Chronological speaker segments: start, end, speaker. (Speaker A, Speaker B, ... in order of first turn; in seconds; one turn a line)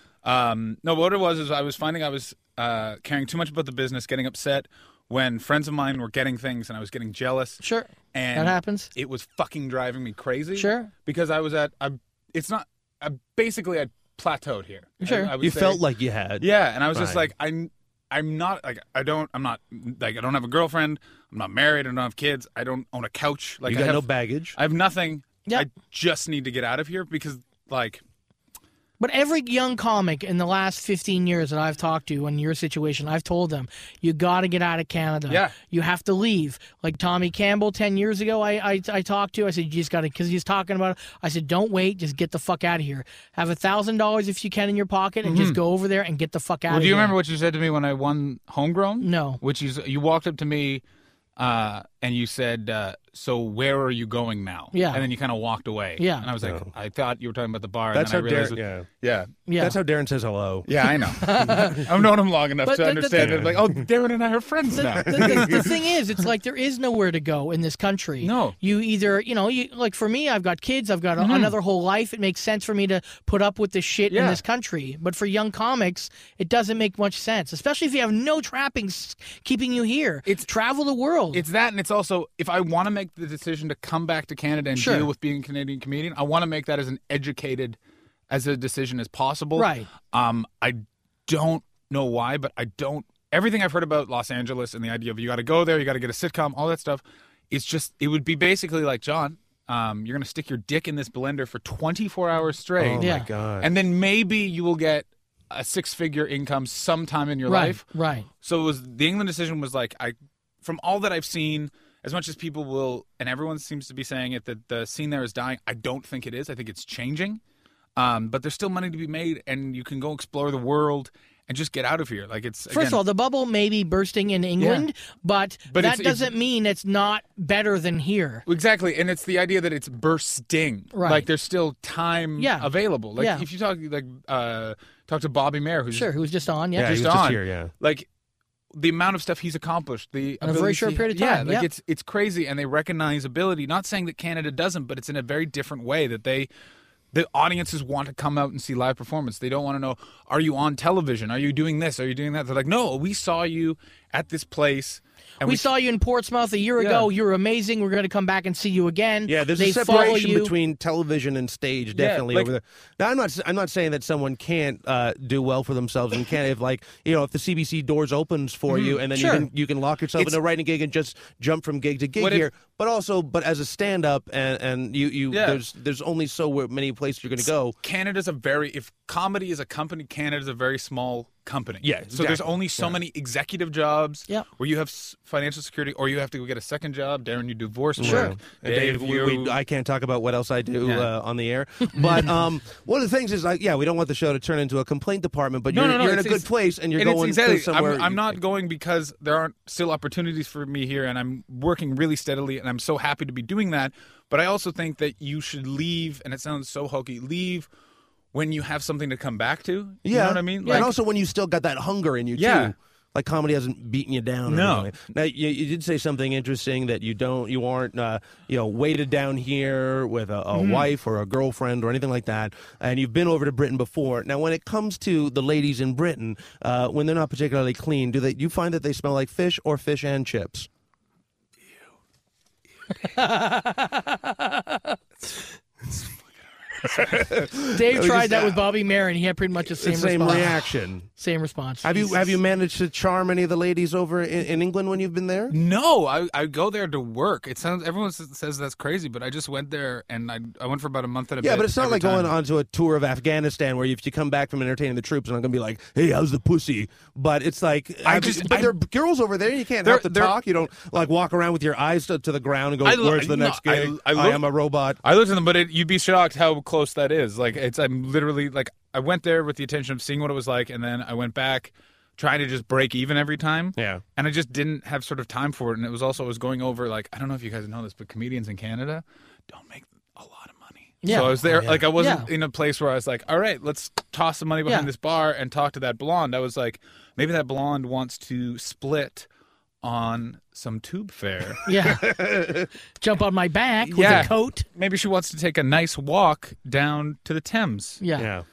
Speaker A: 0.2-7.6
Speaker B: 7.6-8.9
Speaker A: 8.1-15.8
Speaker B: 10.5-10.9
Speaker B: 15.0-15.3
Speaker C: 15.4-17.3
Speaker A: 16.4-28.0
Speaker C: 23.6-24.6
Speaker B: 29.0-47.1
Speaker A: 35.3-35.5
Speaker A: 45.2-45.6
Speaker A: 46.7-50.8
Speaker B: 49.0-49.4
Speaker A: 51.4-59.4
Speaker B: 54.7-55.1
Speaker B: 56.0-56.3
Speaker C: 56.4-56.7
Speaker C: 57.9-58.9
Speaker B: 59.5-59.8
Speaker C: 59.6-60.7
Speaker A: 60.6-65.8
Speaker B: 61.0-61.8
Speaker B: 62.6-63.5
Speaker C: 63.2-63.8
Speaker B: 64.7-81.4
Speaker A: 68.2-68.5
Speaker A: 71.2-71.5
Speaker A: 74.1-74.4
Speaker A: 81.3-87.8
Speaker B: 84.7-85.1
Speaker A: 88.3-107.8
Speaker B: 89.5-89.9
Speaker C: 102.8-103.7
Speaker B: 103.0-103.3
Speaker B: 107.5-108.3
Speaker A: 108.4-117.4
Speaker A: 118.0-123.0
Speaker B: 122.7-128.4
Speaker A: 124.6-124.9
Speaker A: 125.7-126.3
Speaker A: 128.4-136.1
Speaker B: 130.9-131.3
Speaker B: 132.4-133.4
Speaker B: 135.9-137.0
Speaker C: 136.8-137.7
Speaker A: 136.8-138.1
Speaker A: 138.7-146.5
Speaker B: 140.4-141.7
Speaker A: 147.1-155.7
Speaker B: 155.4-160.5
Speaker A: 156.8-157.1
Speaker C: 159.2-177.8
Speaker A: 161.9-162.5
Speaker A: 168.7-169.0
Speaker B: 169.1-169.5
Speaker A: 172.2-172.5
Speaker A: 175.3-175.6
Speaker A: 177.8-189.6
Speaker C: 181.8-183.0
Speaker C: 188.0-198.4
Speaker B: 188.0-188.3
Speaker A: 190.8-191.1
Speaker A: 192.0-192.3
Speaker A: 195.7-207.7
Speaker A: 208.3-210.9
Speaker C: 210.0-230.7
Speaker B: 210.6-210.9
Speaker A: 212.3-212.7
Speaker A: 214.4-214.9
Speaker A: 220.5-220.9
Speaker B: 233.1-234.8
Speaker A: 236.8-237.3
Speaker C: 237.1-238.6
Speaker B: 237.7-240.6
Speaker C: 239.7-241.1
Speaker B: 241.2-242.3
Speaker C: 241.8-245.6
Speaker A: 245.5-252.3
Speaker C: 251.4-265.0
Speaker A: 258.0-258.8
Speaker A: 259.8-260.4
Speaker A: 262.8-264.4
Speaker A: 265.0-289.3
Speaker C: 273.8-274.0
Speaker B: 281.0-281.4
Speaker C: 281.1-281.9
Speaker B: 281.9-282.3
Speaker A: 289.8-291.6
Speaker B: 291.6-292.1
Speaker C: 291.8-292.7
Speaker B: 293.0-294.6
Speaker A: 293.9-298.0
Speaker C: 294.0-294.3
Speaker B: 298.0-298.3
Speaker C: 298.1-298.4